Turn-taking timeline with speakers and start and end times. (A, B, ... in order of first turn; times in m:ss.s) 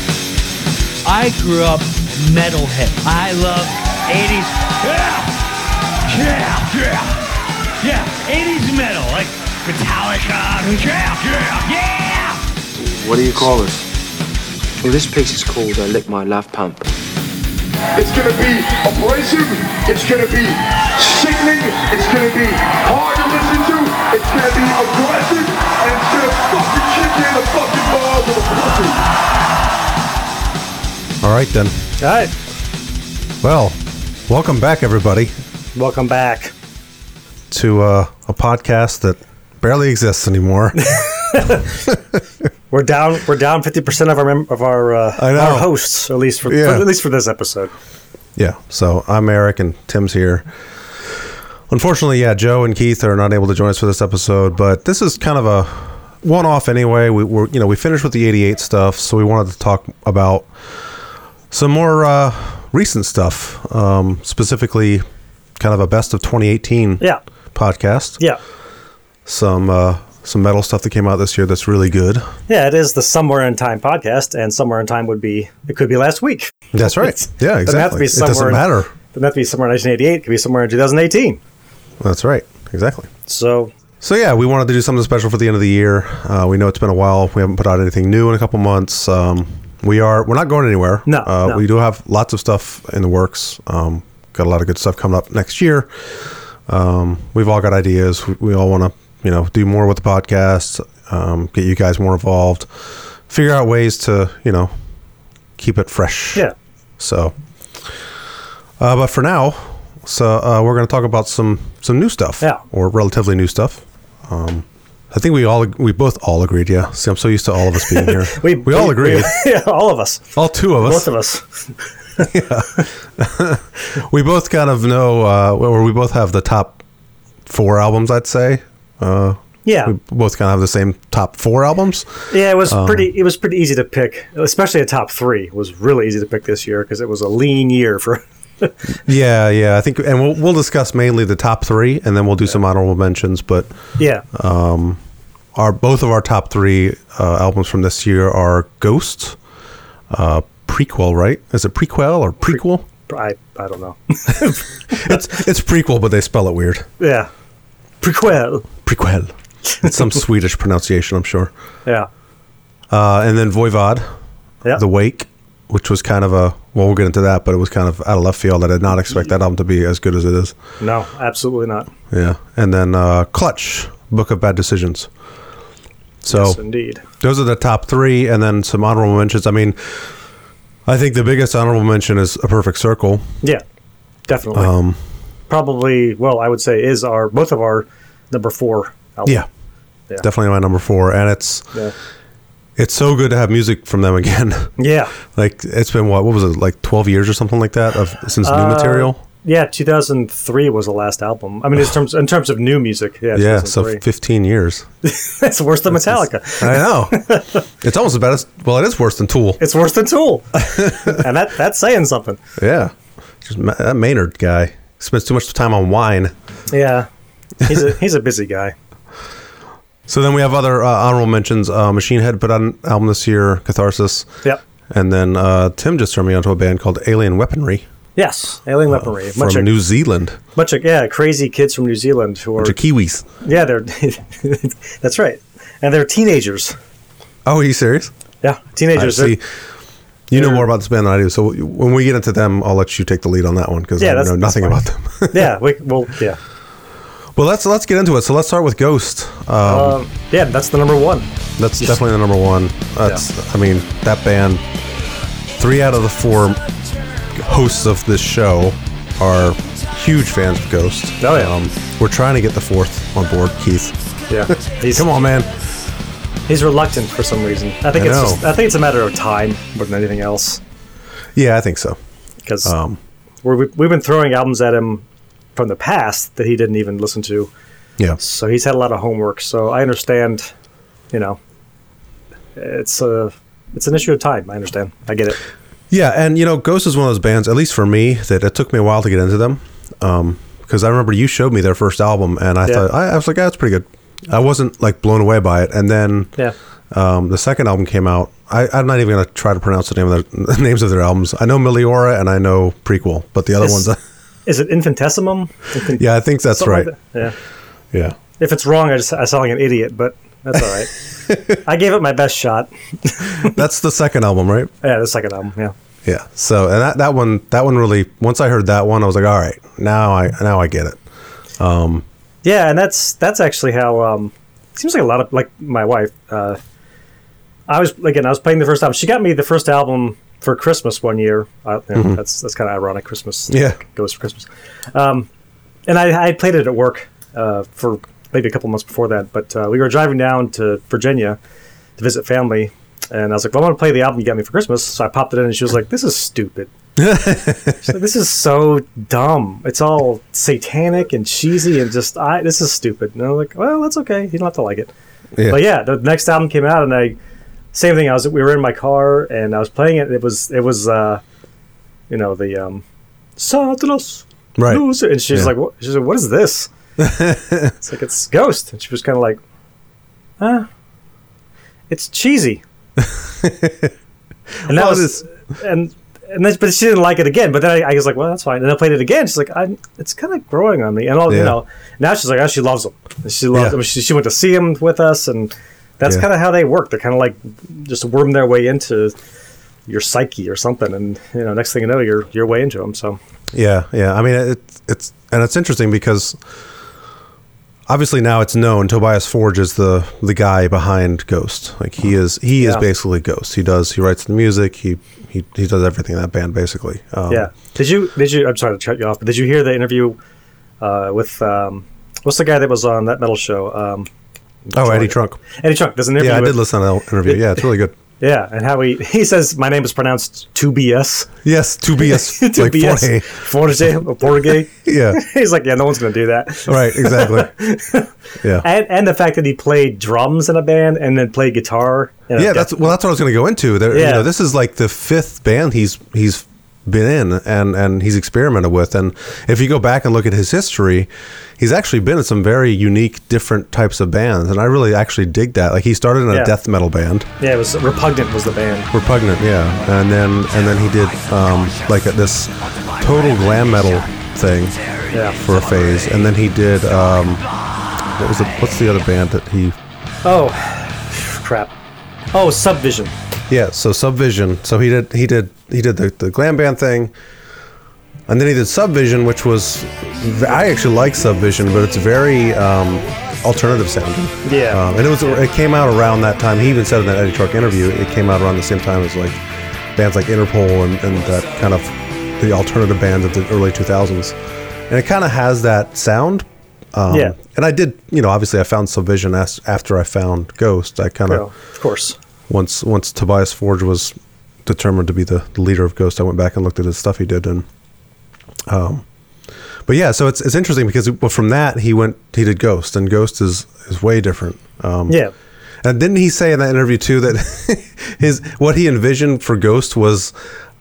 0:01.0-0:05.4 A
0:06.0-0:07.3 A
0:07.8-0:12.4 A
0:12.8-0:13.9 B
0:14.8-0:16.9 B
0:18.0-0:29.0 C
0:31.2-0:31.8 D
0:32.0-0:32.3 E
0:33.4-0:35.3 D
0:35.8-0:36.5 E
0:37.5-0:41.0 D
0:40.8-0:41.8 E
0:42.7-0:47.7 E
0:45.2-0:45.8 D
0:46.5-0:46.9 D
0:48.4-0:50.5 D
0:51.7-1:00.5 D
1:01.5-1:05.0 D
1:05.6-1:07.0 D
1:07.5-1:08.2 D
1:09.3-1:12.3 D
1:12.5-1:21.4 E
1:16.7-1:18.9 D
1:22.0-1:23.1 D
1:23.3-1:23.7 E
1:24.0-1:35.9 D
1:31.1-1:31.6 E
1:36.7-1:42.7 D
1:43.3-1:44.7 D
1:45.6-1:46.5 D
1:47.0-1:47.4 D
1:48.8-1:59.4 D
1:57.8-2:02.3 E
2:00.4-2:01.1 D
2:02.2-2:06.8 D
2:07.5-2:13.1 D
2:09.6-2:10.0 E
2:12.3-2:18.9 E
2:19.0-2:23.7 D
2:24.0-2:24.2 E
2:24.3-2:25.0 D
2:25.6-2:29.4 D
2:30.1-2:32.8 D
2:32.5-2:35.2 E
2:34.3-2:36.9 D
2:37.0-2:37.3 E
2:38.0-2:38.7 E
2:38.8-2:41.5 D
2:42.9-2:44.1 D
2:44.7-2:50.6 D
2:50.8-2:51.9 E
2:52.1-2:55.1 D
2:56.2-2:56.6 D
2:56.3-2:57.0 E
2:57.2-3:00.1 D
3:00.9-3:03.3 D
3:04.3-3:04.7 E
3:04.5-3:05.0 D
3:05.5-3:09.4 E
3:10.2-3:11.7 D
3:12.8-3:19.2 D
3:14.8-3:15.2 E
3:18.4-3:24.0 E
3:23.3-3:24.9 D
3:25.0-3:27.6 E
3:26.0-3:27.3 D
3:27.8-3:29.6 D
3:29.6-3:32.4 E
3:30.6-3:31.2 D
3:32.6-3:36.3 D
3:36.7-3:37.1 E
3:37.6-3:38.8 E
3:40.1-3:44.3 D
3:44.9-3:47.9 D
3:48.2-3:49.7 E
3:48.9-3:50.4 D
3:50.6-3:52.8 E
3:52.6-3:53.2 D
3:53.4-3:56.8 E
3:57.4-3:58.1 D
3:58.4-3:59.4 E
3:58.9-3:59.4 D
4:00.3-4:05.5 D
4:00.3-4:00.7 E
4:04.0-4:06.4 E
4:07.4-4:10.0 D
4:09.6-4:11.3 E
4:11.6-4:14.7 D
4:15.6-4:16.6 D
4:17.3-4:24.0 D
4:21.2-4:21.5 E
4:24.3-4:25.1 E
4:24.9-4:25.5 D
4:26.5-4:30.6 E
4:27.9-4:28.4 D
4:31.4-4:32.0 D
4:32.5-4:32.7 E
4:32.6-4:33.0 D
4:33.4-4:35.0 E
4:35.6-4:37.5 E
4:38.2-4:40.5 E
4:41.1-4:41.4 E
4:42.6-4:45.4 E
4:45.9-4:56.4 D
4:56.9-5:04.0 D
5:03.6-5:03.9 E
5:04.5-5:07.4 E
5:06.0-5:07.0 D
5:08.4-5:11.0 E
5:11.5-5:13.6 E
5:13.4-5:14.7 D
5:14.8-5:15.7 E
5:16.0-5:21.0 D
5:21.6-5:22.0 D
5:22.4-5:26.6 E
5:27.7-5:35.3 E
5:31.9-5:32.2 D
5:33.5-5:33.8 D
5:35.9-5:41.4 E
5:42.0-5:46.7 E
5:47.0-5:47.8 D
5:47.8-5:54.9 E
5:55.4-5:55.6 D
5:55.5-5:57.2 E
5:57.7-6:01.2 E
6:02.1-6:02.8 E
6:03.4-6:06.7 E
6:04.6-6:05.5 D
6:07.0-6:07.7 D
6:07.8-6:09.4 E
6:10.4-6:10.7 E
6:11.9-6:12.6 E
6:13.0-6:13.9 D
6:14.6-6:15.2 D
6:14.7-6:29.2 E
6:21.3-6:21.6 D
6:23.5-6:23.8 D
6:29.9-6:33.2 E
6:33.5-6:36.4 D
6:37.9-6:47.5 D
6:42.6-6:42.8 E
6:47.3-6:50.2 E
6:50.8-6:54.1 E
6:54.7-6:56.6 E
6:54.7-6:55.4 D
6:56.2-6:58.0 D
6:58.2-7:01.3 E
7:01.4-7:03.4 D
7:02.0-7:12.9 E
7:04.7-7:05.2 D
7:06.7-7:07.5 D
7:12.4-7:27.3 D
7:13.9-7:14.3 E
7:27.4-7:28.9 E
7:28.9-7:34.8 D
7:35.1-7:35.4 E
7:35.4-7:37.4 D
7:38.1-7:39.8 D
7:40.2-7:41.7 E
7:42.3-7:43.1 E
7:43.5-7:47.1 D
7:48.3-7:59.4 D
7:54.4-7:54.8 E
8:00.0-8:04.4 D
8:04.9-8:11.5 D
8:07.1-8:07.4 E
8:11.3-8:12.2 E
8:12.5-8:17.7 D
8:18.7-8:19.0 D
8:19.9-8:25.2 D
8:25.8-8:30.3 D